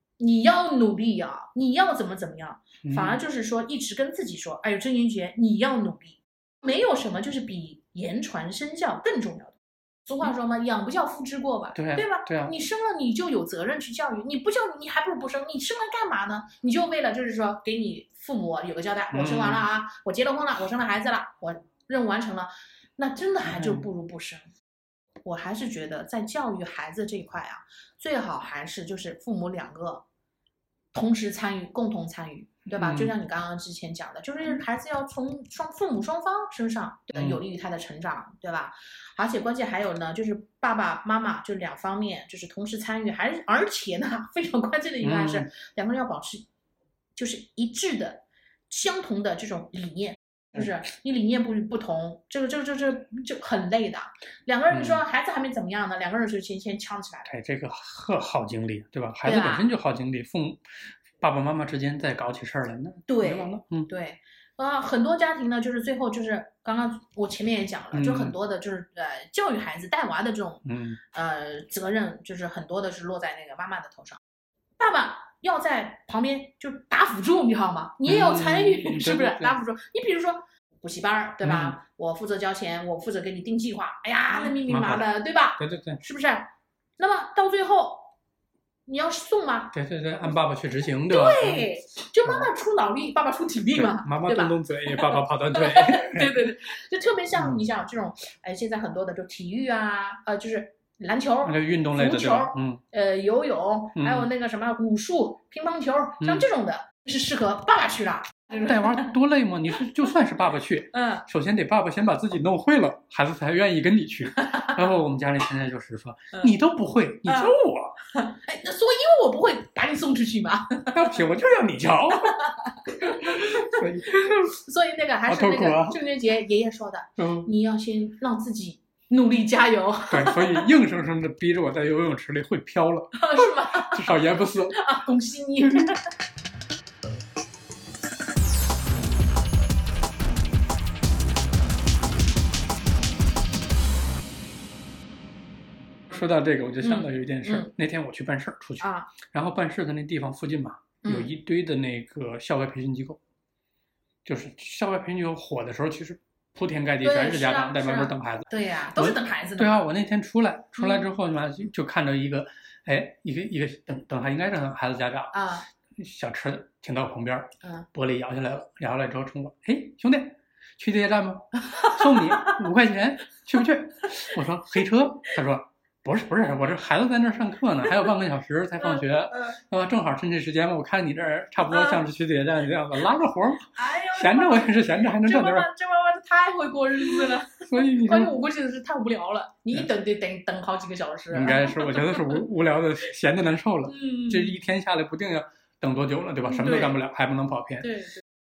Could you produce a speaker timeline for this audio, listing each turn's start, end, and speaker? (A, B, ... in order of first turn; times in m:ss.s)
0:00.2-0:24.4 A
0:02.8-0:03.2 B
0:11.7-0:12.5 B
0:19.1-0:19.7 B
0:23.4-0:23.8 B
0:25.2-0:30.0 A
0:30.9-0:46.4 A
0:32.7-0:33.1 B
0:37.1-0:37.4 B
0:45.0-0:45.5 B
0:47.2-0:57.3 A
0:54.7-0:55.0 B
0:57.2-1:00.6 B
0:59.2-0:59.7 A
1:01.2-1:03.9 B
1:03.1-1:14.2 A
1:07.9-1:08.4 B
1:10.6-1:11.0 B
1:14.8-1:28.1 A
1:18.0-1:19.6 B
1:21.4-1:21.8 B
1:24.3-1:26.0 B
1:28.8-1:29.7 A
1:29.7-1:31.7 B
1:31.1-1:49.1 A
1:33.7-1:36.5 B
1:37.3-1:37.6 B
1:41.4-1:42.8 B
1:44.0-1:44.3 B
1:48.6-1:58.0 B
1:50.9-1:51.2 A
1:54.4-1:54.7 A
1:57.2-1:57.5 A
1:58.1-2:01.1 A
2:00.9-2:02.4 B
2:02.2-2:03.8 A
2:03.2-2:04.5 B
2:04.5-2:10.7 A
2:05.3-2:06.0 B
2:07.2-2:07.5 B
2:10.1-2:14.8 B
2:13.1-2:16.0 A
2:26.1-2:33.2 B
2:26.8-2:27.7 A
2:28.8-2:29.1 A
2:31.0-2:31.3 A
2:34.2-2:45.3 B
2:37.0-2:39.8 A
2:40.8-2:41.1 A
2:45.3-2:45.7 A
2:46.0-3:05.7 B
2:51.6-2:52.6 A
2:58.8-2:59.6 A
3:01.7-3:02.0 A
3:03.8-3:12.4 A
3:07.2-3:08.3 B
3:11.3-3:17.9 B
3:13.8-3:14.6 A
3:16.4-3:17.0 A
3:17.8-3:18.2 A